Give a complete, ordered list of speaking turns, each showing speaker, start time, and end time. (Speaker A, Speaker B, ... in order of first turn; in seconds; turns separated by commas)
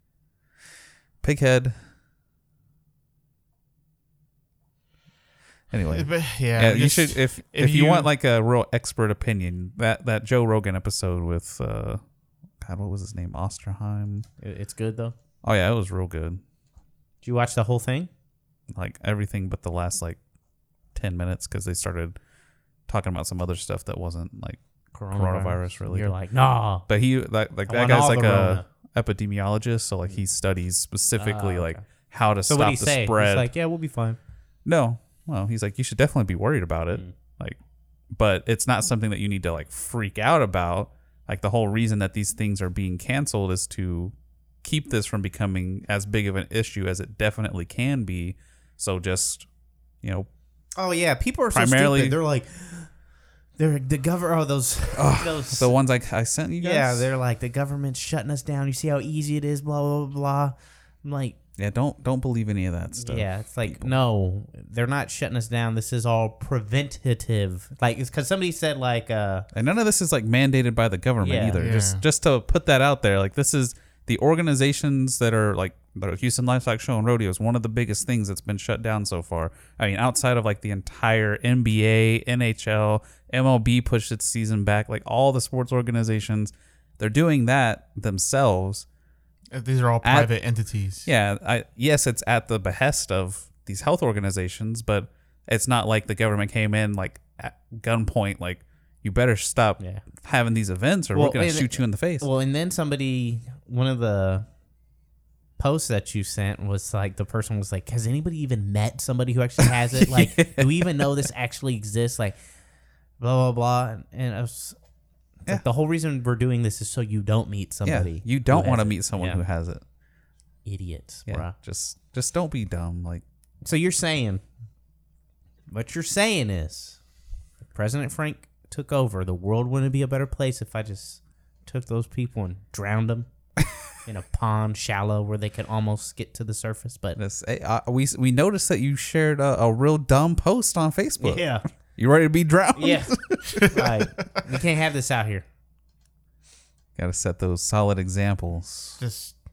Speaker A: 1.2-1.8, Speaker A: 5.7-12.0, Speaker B: 5.9-8.1, Speaker A: 12.6-14.3, Speaker C: 14.4-15.1, Speaker A: 15.4-16.4, Speaker C: 17.2-18.1, Speaker A: 18.7-20.2, Speaker A: 20.9-22.2, Speaker A: 22.9-24.6, Speaker C: 24.9-26.9, Speaker A: 25.1-26.1, Speaker A: 26.9-33.5, Speaker C: 27.7-28.6, Speaker C: 31.1-31.8, Speaker C: 32.5-34.2, Speaker A: 34.6-37.6, Speaker A: 38.1-49.5, Speaker A: 50.0-50.3, Speaker C: 50.8-52.9, Speaker A: 51.5-52.2, Speaker C: 53.6-55.7, Speaker A: 54.9-57.1, Speaker C: 56.6-61.4, Speaker A: 61.6-64.0, Speaker C: 62.9-69.5, Speaker A: 69.5-88.8, Speaker C: 71.2-71.6, Speaker B: 71.6-72.0, Speaker B: 89.5-91.1, Speaker A: 90.0-90.3, Speaker A: 91.0-102.3, Speaker C: 101.1-104.5, Speaker C: 105.6-112.4, Speaker A: 109.6-111.2, Speaker C: 113.2-114.8, Speaker C: 115.5-119.4, Speaker A: 117.8-119.8, Speaker C: 120.6-121.5, Speaker A: 121.3-123.2, Speaker C: 123.6-124.4, Speaker C: 125.7-127.0, Speaker C: 127.7-133.3, Speaker C: 134.0-137.2, Speaker A: 137.2-143.8, Speaker C: 141.2-141.6, Speaker C: 142.7-145.4, Speaker A: 146.9-149.0, Speaker B: 149.0-149.3